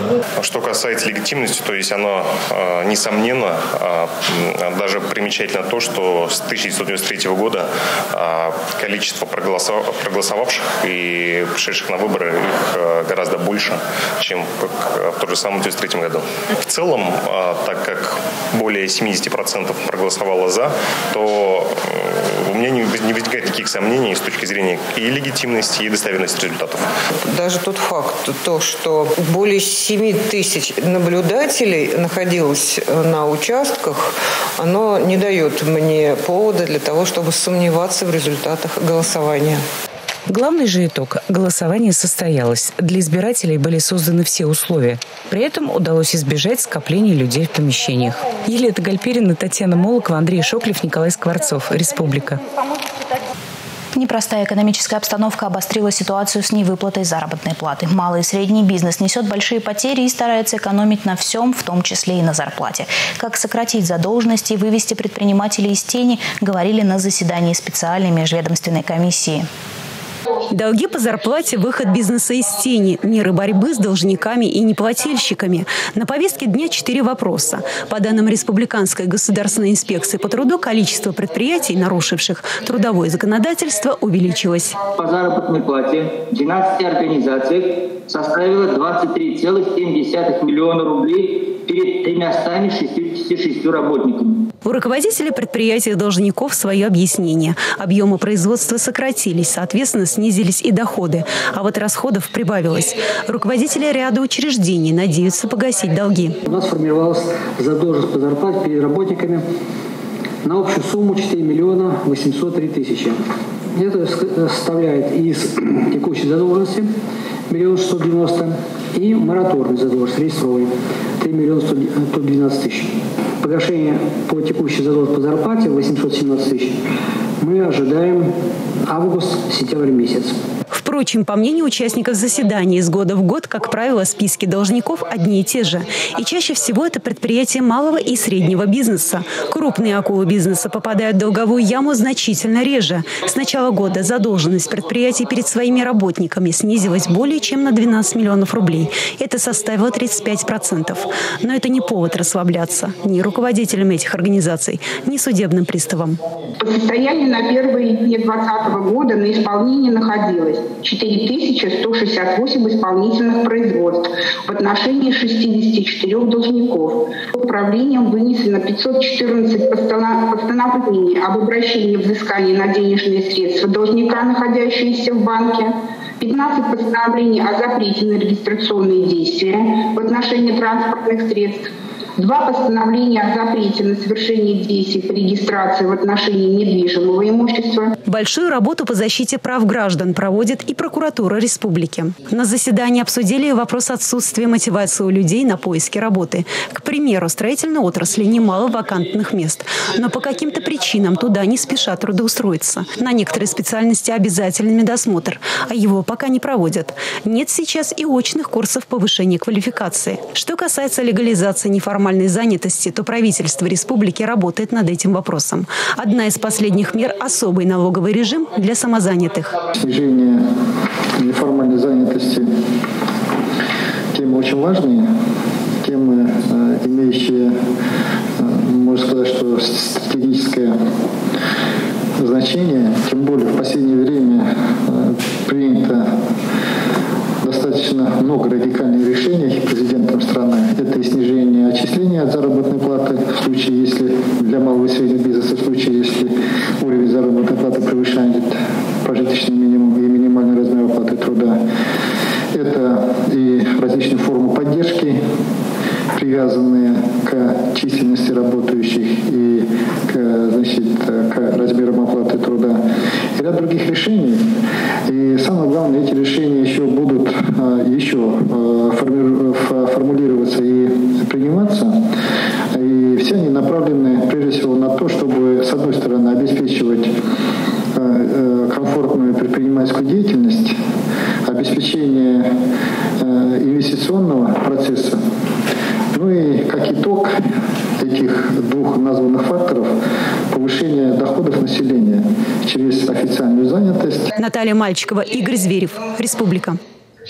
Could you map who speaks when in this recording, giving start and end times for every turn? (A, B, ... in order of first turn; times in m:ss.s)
0:00.4-0:26.9 A
0:27.2-0:39.6 B
0:40.3-0:52.4 C
0:53.9-1:09.5 D
1:10.5-1:24.8 E
1:25.0-1:34.4 F
1:34.6-1:46.4 E
1:46.4-1:49.4 G
1:50.4-1:53.2 G
1:53.7-1:56.9 G
1:57.5-2:06.8 G
2:07.4-2:08.3 G
2:08.8-2:10.4 G
2:10.7-2:36.2 E
2:36.6-3:07.9 H
3:08.1-3:39.6 E
3:39.8-3:40.4 I
3:41.2-3:42.5 I
3:44.1-3:45.1 I
3:45.8-3:47.5 I
3:48.4-3:50.7 I
3:52.2-3:56.2 I
3:57.4-4:11.6 I
4:12.5-4:15.2 I
4:16.2-4:22.8 I
4:23.4-4:32.0 I
4:32.7-4:37.1 I
4:37.9-4:40.8 I
4:41.4-4:42.5 I
4:43.2-4:45.2 I
4:46.1-4:47.4 I
4:48.0-4:49.9 I
4:50.5-4:54.3 I
4:54.3-4:56.8 E